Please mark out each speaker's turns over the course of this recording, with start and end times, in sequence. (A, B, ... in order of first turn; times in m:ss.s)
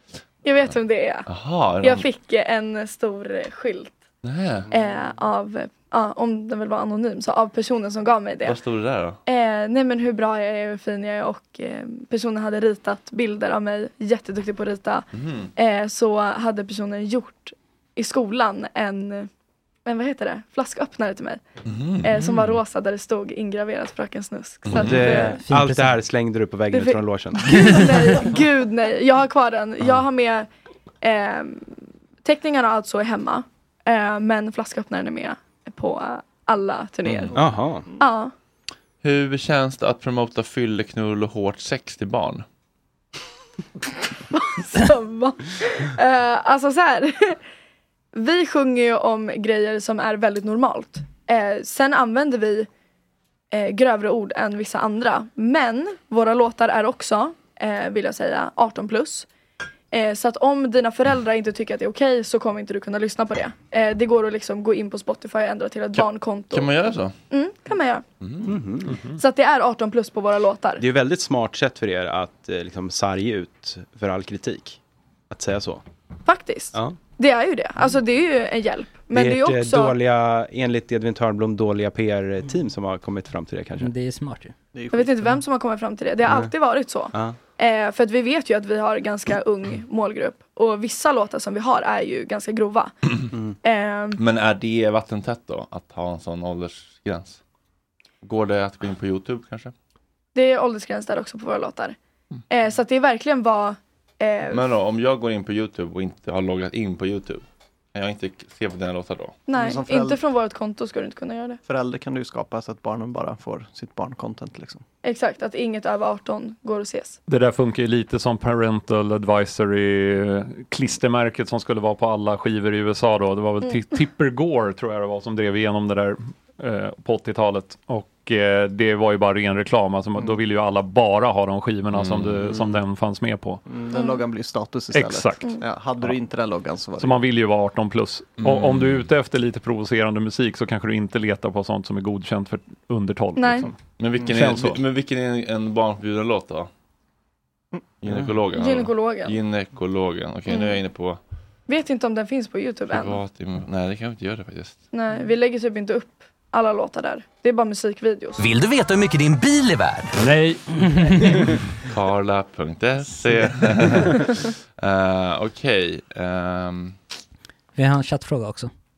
0:00.4-0:01.3 A
0:01.3-0:02.1 B
0:01.8-0:04.0 A
0:04.2-0:04.7 B
0:04.7-0:08.6 A
0:08.4-0:09.2 B
0:09.3-0:19.3 A
0:15.1-0:15.5 B
0:19.9-0:21.4 A
0:21.6-0:22.6 B
0:22.0-0:25.4 A
0:24.6-0:25.2 B
0:24.8-0:27.7 C
0:25.2-0:26.0 D
0:26.7-0:30.5 A
0:27.5-0:27.9 D
0:31.0-0:37.4 A
0:37.1-0:37.4 B
0:37.3-0:37.9 C
0:38.0-0:38.3 A
0:39.0-0:42.4 B
0:44.3-0:47.4 A
0:48.1-0:52.7 A
0:53.5-0:59.3 A
0:59.9-1:08.0 A
1:05.9-1:07.2 B
1:08.2-1:08.5 B
1:08.4-1:09.0 C
1:09.1-1:10.8 A
1:10.8-1:15.8 C
1:16.3-1:20.0 A
1:19.1-1:23.9 C
1:23.8-1:24.5 D
1:24.7-1:25.1 E
1:24.9-1:33.0 A
1:26.3-1:26.5 C
1:33.6-1:34.2 A
1:34.2-1:37.4 B
1:38.2-1:39.7 B
1:40.4-1:42.0 A
1:42.5-1:44.7 A
1:44.5-1:47.4 B
1:47.9-1:49.4 B
1:49.5-1:51.6 A
1:49.5-1:50.2 E
1:51.7-1:54.8 E
1:55.0-1:57.2 A
1:57.3-2:13.6 F
2:03.6-2:04.0 A
2:11.9-2:12.8 B
2:13.7-2:17.2 E
2:13.9-2:14.2 A
2:14.9-2:16.2 F
2:17.0-2:24.8 F
2:18.4-2:19.1 B
2:23.4-2:23.7 A
2:24.0-2:26.7 B
2:28.0-2:31.2 B
2:28.5-2:29.4 A
2:30.5-2:30.8 A
2:31.7-2:33.2 A
2:32.9-2:34.8 B
2:34.9-2:38.4 A
2:40.2-2:41.6 F
2:41.9-2:47.0 B
2:47.8-2:48.7 D